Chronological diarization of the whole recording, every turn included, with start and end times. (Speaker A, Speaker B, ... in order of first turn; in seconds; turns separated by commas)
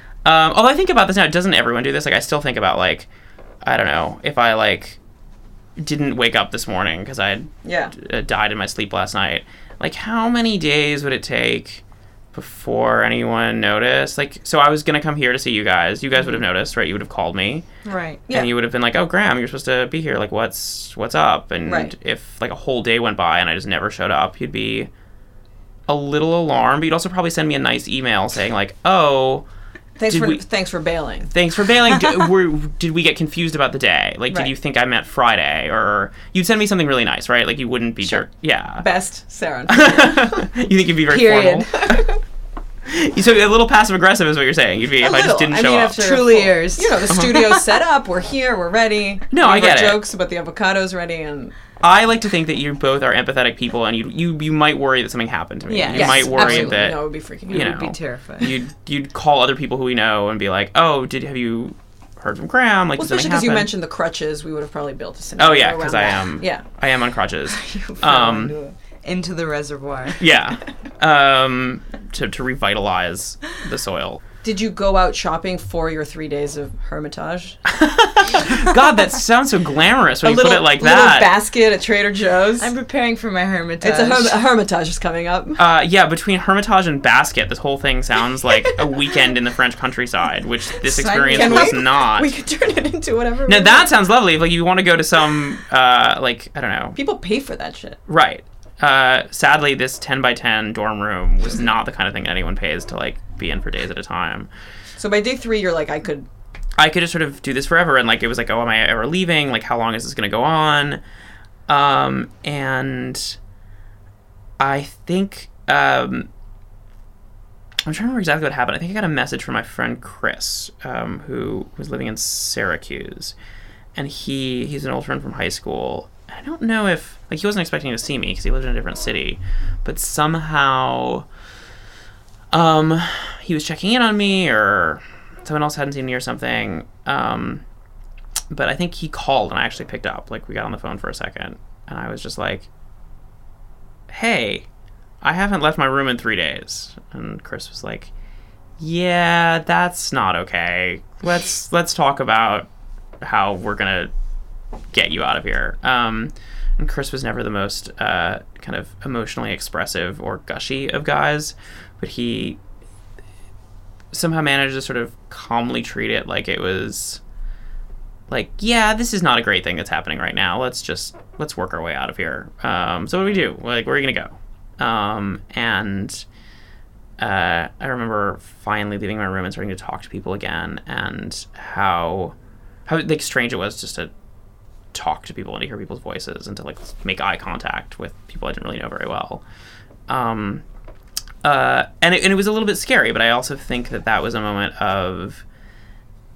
Speaker A: 0.2-3.1, Speaker A: 3.6-5.0, Speaker A: 5.8-17.6, Speaker B: 7.6-7.9, Speaker B: 17.8-18.5, Speaker A: 18.3-24.9, Speaker B: 21.6-21.9, Speaker A: 25.9-29.5, Speaker B: 30.0-31.3, Speaker A: 30.1-30.4, Speaker A: 31.3-38.9, Speaker B: 38.0-40.5, Speaker A: 39.7-42.0, Speaker C: 41.1-42.0, Speaker B: 41.7-42.2, Speaker A: 42.8-46.1, Speaker B: 45.0-51.5, Speaker C: 46.0-47.6, Speaker A: 49.3-50.0, Speaker A: 51.8-63.7, Speaker C: 55.7-58.5, Speaker B: 55.9-57.8, Speaker B: 63.0-66.6, Speaker A: 65.4-68.5, Speaker C: 67.6-70.2, Speaker A: 70.2-74.2, Speaker B: 74.4-77.7, Speaker A: 77.7-81.3, Speaker B: 78.3-78.7, Speaker B: 80.2-82.7, Speaker C: 82.6-84.4, Speaker B: 83.8-85.6, Speaker A: 85.6-92.3, Speaker C: 90.8-91.8, Speaker B: 91.1-93.9, Speaker A: 93.5-97.0, Speaker B: 97.0-98.0, Speaker A: 98.1-104.5, Speaker B: 105.0-106.3, Speaker A: 106.8-111.0, Speaker A: 111.7-113.4, Speaker A: 114.6-116.3, Speaker A: 117.8-123.3, Speaker A: 123.9-131.3, Speaker A: 132.5-137.6, Speaker A: 138.5-142.7, Speaker A: 144.1-144.7, Speaker A: 145.2-148.1, Speaker A: 148.8-152.7, Speaker A: 153.2-154.1, Speaker A: 154.9-162.6, Speaker A: 164.1-167.2, Speaker A: 168.3-176.2, Speaker A: 177.2-184.1, Speaker A: 184.9-189.4, Speaker A: 190.1-190.6, Speaker A: 191.4-195.4